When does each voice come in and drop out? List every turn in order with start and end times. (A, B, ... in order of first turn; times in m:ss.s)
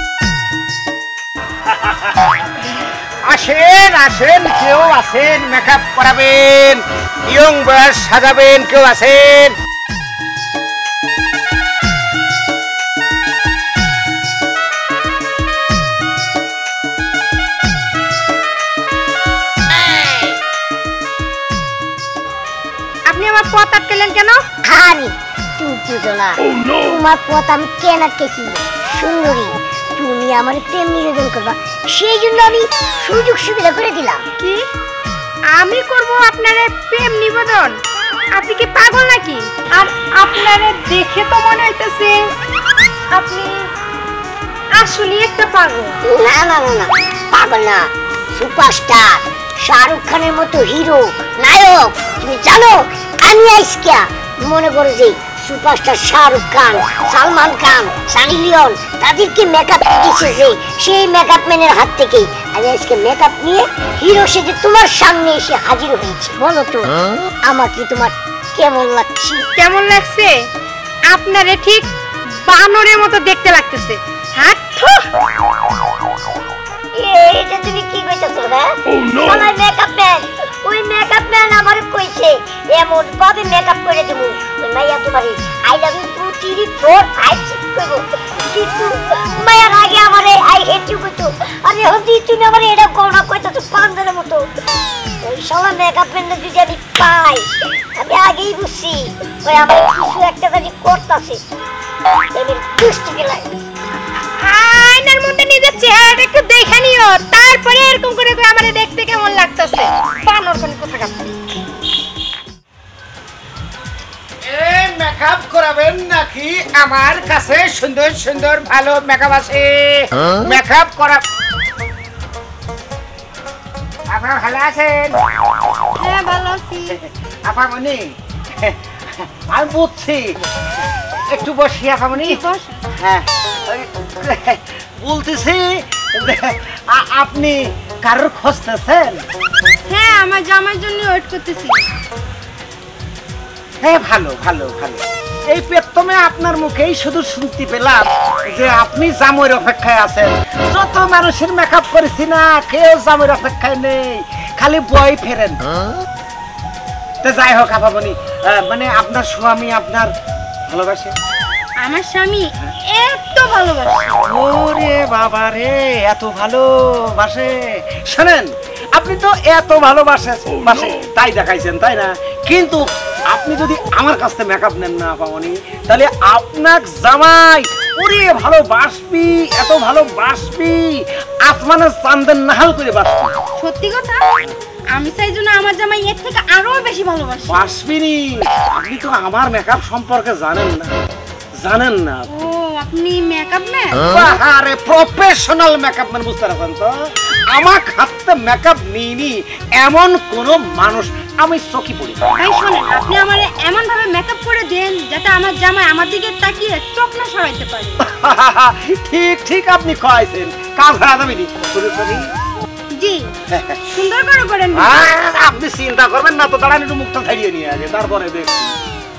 0:03.2-0:09.6 A
0:23.1-0:24.4 B
0:24.6-0:34.2 C
0:35.5-0:37.7 B
0:38.4-0:42.2 B
0:43.1-0:43.7 B
0:44.8-0:46.0 B
0:46.0-1:09.4 C
1:09.6-1:10.4 B
1:11.1-1:11.9 B
1:12.4-1:15.1 B
1:17.0-1:34.5 C
1:35.2-1:41.4 C
1:42.3-1:43.5 C
1:44.4-1:51.4 B
1:54.4-2:01.2 A
2:04.1-2:05.2 A
2:06.0-2:06.9 B
2:07.4-2:08.0 A
2:08.6-2:10.4 A
2:11.3-2:12.4 A
2:12.2-2:12.8 B
2:13.0-2:19.2 A
2:19.9-2:21.9 B
2:23.8-2:35.6 A
2:37.2-2:40.1 A
2:40.7-2:41.2 A
2:41.8-2:44.1 B
2:44.3-3:03.3 A
3:03.6-3:04.3 B
3:04.9-3:07.7 B
3:07.5-3:10.9 A
3:11.6-3:12.3 A
3:12.3-3:14.1 B
3:14.1-3:16.9 A
3:17.5-3:22.3 A
3:22.4-3:28.0 B
3:28.0-3:32.3 A
3:33.0-3:33.3 B
3:33.5-3:33.8 A
3:33.9-3:34.9 B
3:34.7-3:38.7 A